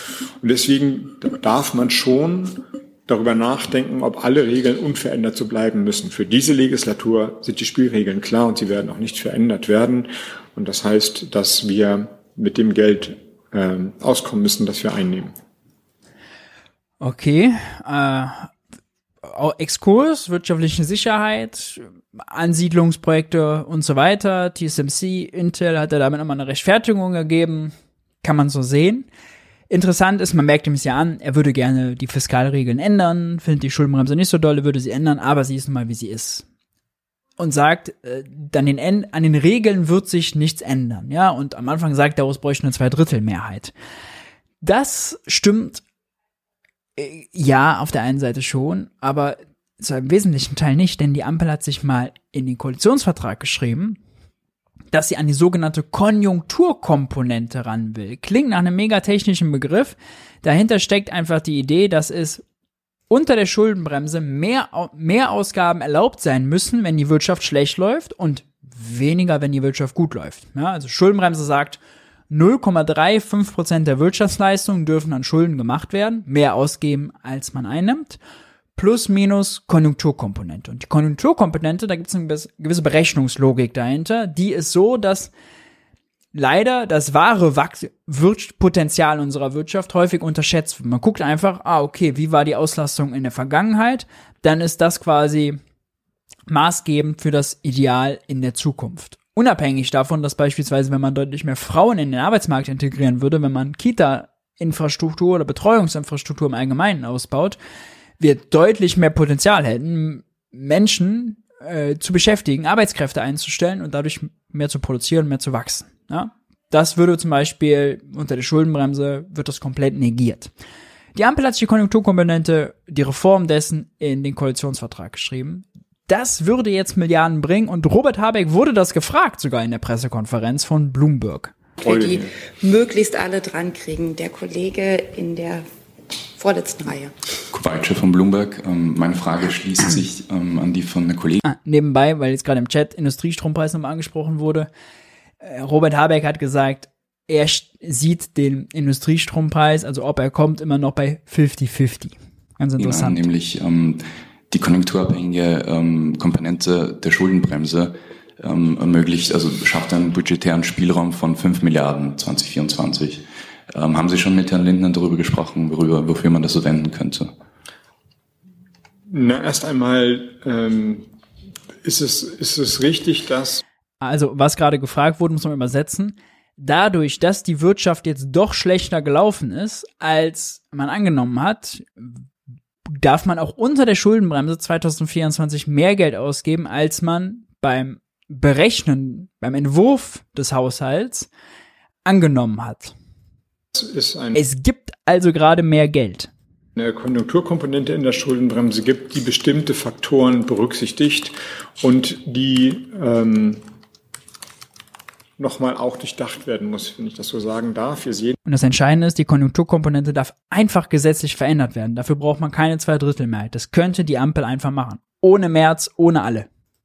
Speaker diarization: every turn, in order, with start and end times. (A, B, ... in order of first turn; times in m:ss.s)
0:00.4-0:15.4 A
0:17.0-0:18.5 B
0:19.2-0:29.1 B
0:29.7-0:36.4 B
0:37.4-0:43.7 B
0:44.6-0:45.8 B
0:47.0-0:54.0 B
0:54.9-1:02.4 B
1:03.1-1:18.2 B
1:18.8-1:25.3 B
1:26.3-1:35.6 B
1:36.5-1:47.6 B
1:48.2-2:00.5 B
2:01.1-2:11.5 B
2:11.8-2:15.6 C
2:11.9-2:12.2 A
2:16.4-2:17.1 C
2:17.5-2:21.4 D
2:21.4-2:24.7 B
2:25.4-2:33.2 B
2:32.8-2:47.3 D
2:49.1-2:51.1 A
2:51.8-2:53.6 A
2:54.0-3:02.2 B
3:03.0-3:11.3 B
3:12.0-3:13.0 B
3:13.7-3:14.4 A
3:14.4-3:16.3 B
3:16.8-3:23.6 A
3:25.4-3:28.4 A
3:28.5-3:36.5 B